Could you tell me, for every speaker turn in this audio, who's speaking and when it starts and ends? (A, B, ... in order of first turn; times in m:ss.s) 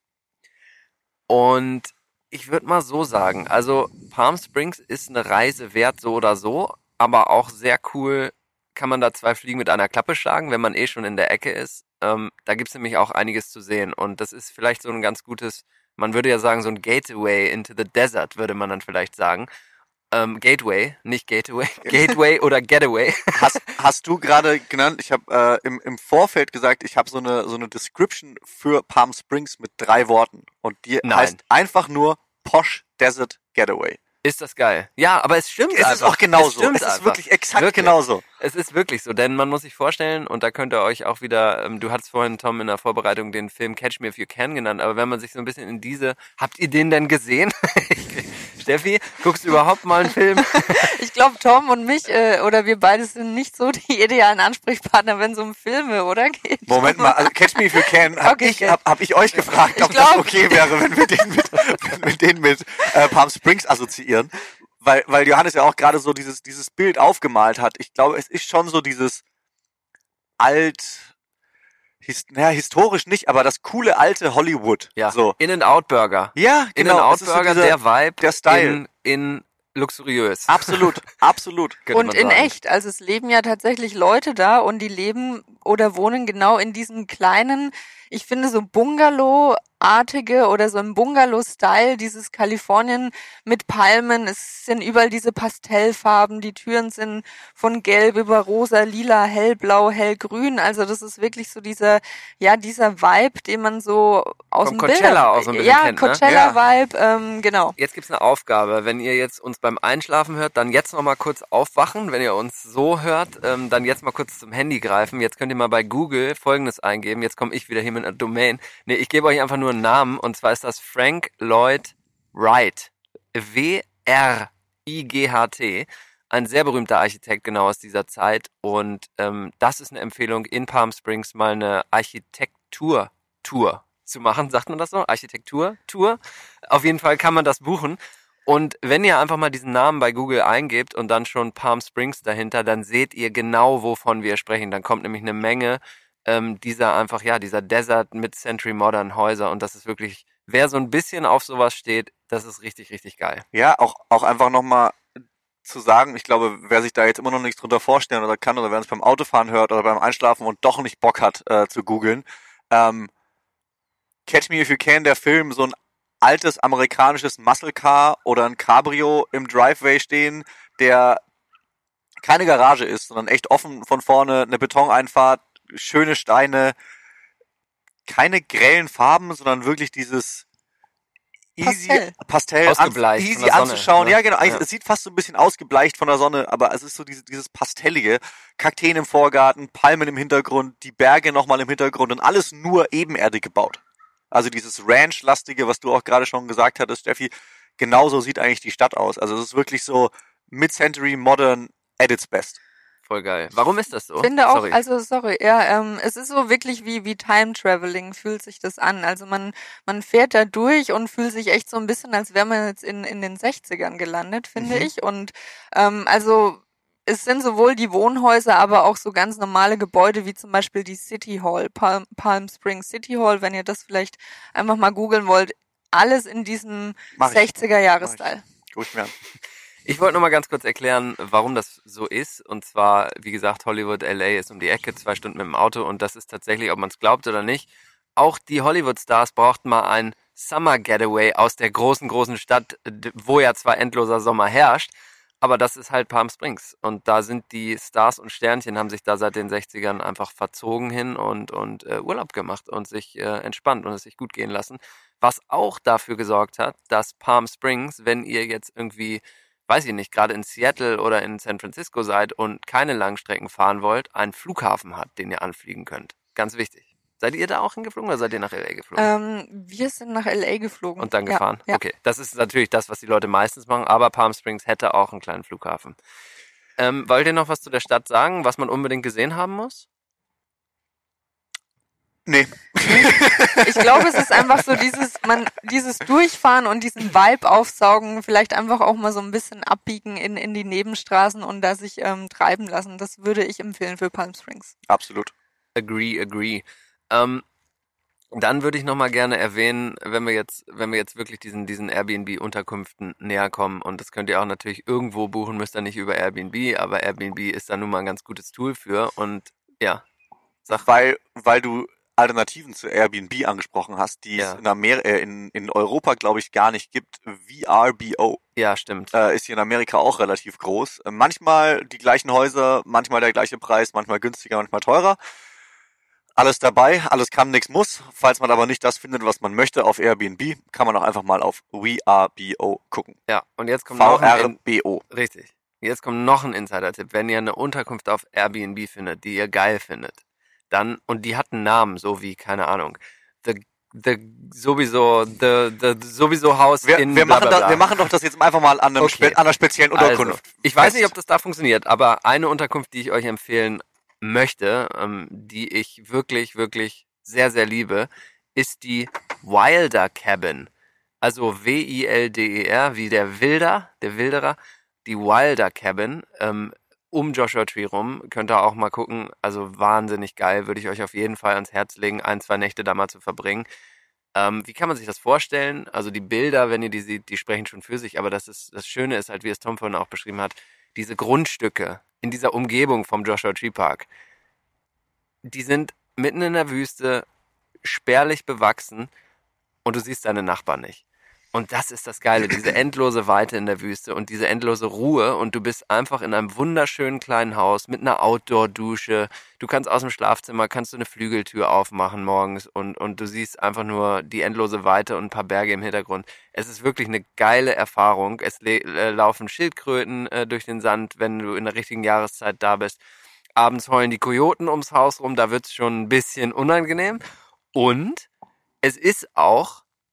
0:01.3-0:19.5 A
0:20.1-0:23.6 A
0:21.8-0:22.1 B
0:23.4-0:34.0 B
0:31.0-0:31.4 A
0:34.2-0:50.9 A
0:35.7-0:38.2 B
0:50.5-0:58.8 C
0:56.7-1:04.3 B
0:59.4-1:00.7 C
1:04.8-1:09.2 B
1:10.4-1:11.1 B
1:12.0-1:15.4 B
1:15.0-1:21.0 A
1:16.4-1:18.8 B
1:20.5-1:21.8 B
1:21.9-1:22.5 A
1:21.9-1:47.8 C
1:44.6-1:46.2 A
1:46.2-1:46.6 B
1:47.8-2:16.2 A
2:16.7-2:33.4 A
2:33.5-2:35.0 B
2:35.6-2:43.1 B
2:44.3-2:51.2 B
2:52.2-2:56.8 B
2:58.1-3:00.4 B
3:01.6-3:13.8 B
3:01.6-3:02.1 C
3:02.7-3:04.6 A
3:14.3-3:22.6 B
3:23.1-3:24.8 A
3:24.2-3:48.4 C
3:34.6-3:34.9 B
3:47.2-3:49.1 B
3:49.9-4:29.1 A
4:29.0-4:31.8 C
4:31.0-4:36.0 A
4:36.8-4:39.9 A
4:42.3-4:44.8 B
4:43.6-4:54.7 C
4:54.9-4:55.3 B
4:55.8-4:57.4 A
4:58.3-5:10.0 A
5:10.7-5:18.4 B
5:18.6-5:19.1 A
5:19.1-5:25.2 B
5:26.4-5:33.2 B
5:33.3-5:34.6 A
5:33.9-5:35.0 B
5:35.1-5:47.9 A
5:46.8-5:51.1 B
5:49.0-5:49.4 A
5:50.0-6:00.7 A
6:01.2-6:13.7 A
6:14.4-6:24.1 A
6:25.5-6:27.2 A
6:27.8-6:29.1 A
6:29.8-6:31.0 A
6:31.5-6:53.0 A
6:53.6-6:57.2 A
6:57.7-6:58.3 A
6:58.8-6:59.8 A